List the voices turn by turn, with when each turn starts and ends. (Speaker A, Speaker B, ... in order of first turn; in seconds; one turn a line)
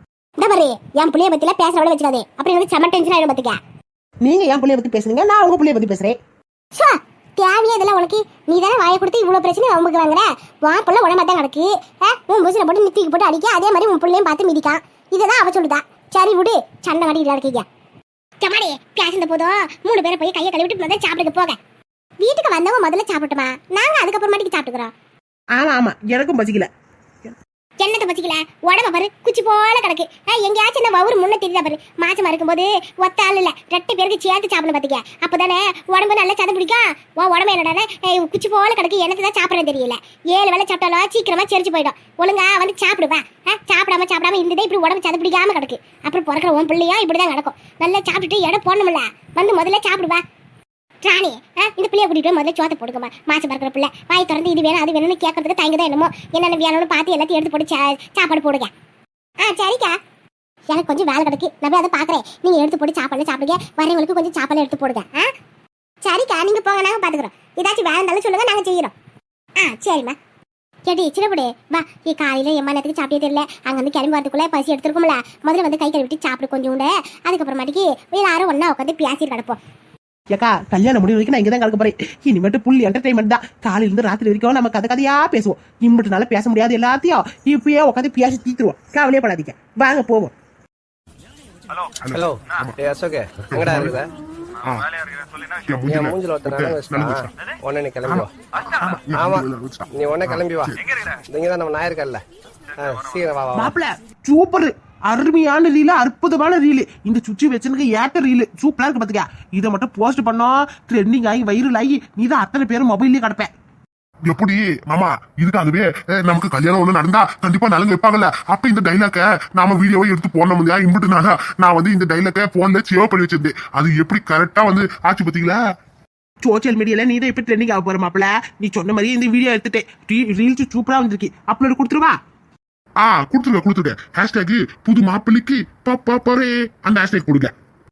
Speaker A: 0.4-3.6
Speaker B: 4.2-6.2
Speaker A: 6.8-17.6
Speaker A: 18.4-21.6
Speaker A: 22.2-24.9
Speaker B: 25.6-26.7
Speaker A: 27.8-50.2
Speaker A: 51.0-58.7
Speaker A: 59.4-60.0
Speaker A: 60.7-65.3
Speaker A: 66.0-68.9
Speaker A: 69.6-70.2
Speaker A: 70.9-79.6
Speaker B: 80.3-90.3
Speaker C: 92.0-92.8
Speaker D: 92.1-94.1
Speaker C: 93.5-94.0
Speaker C: 94.6-94.9
Speaker C: 95.7-97.3
Speaker D: 95.9-98.3
Speaker C: 98.0-100.8
Speaker D: 99.1-102.2
Speaker D: 102.8-103.7
Speaker B: 103.5-113.5
Speaker C: 114.3-125.6
Speaker B: 126.4-132.2
Speaker C: 133.0-137.5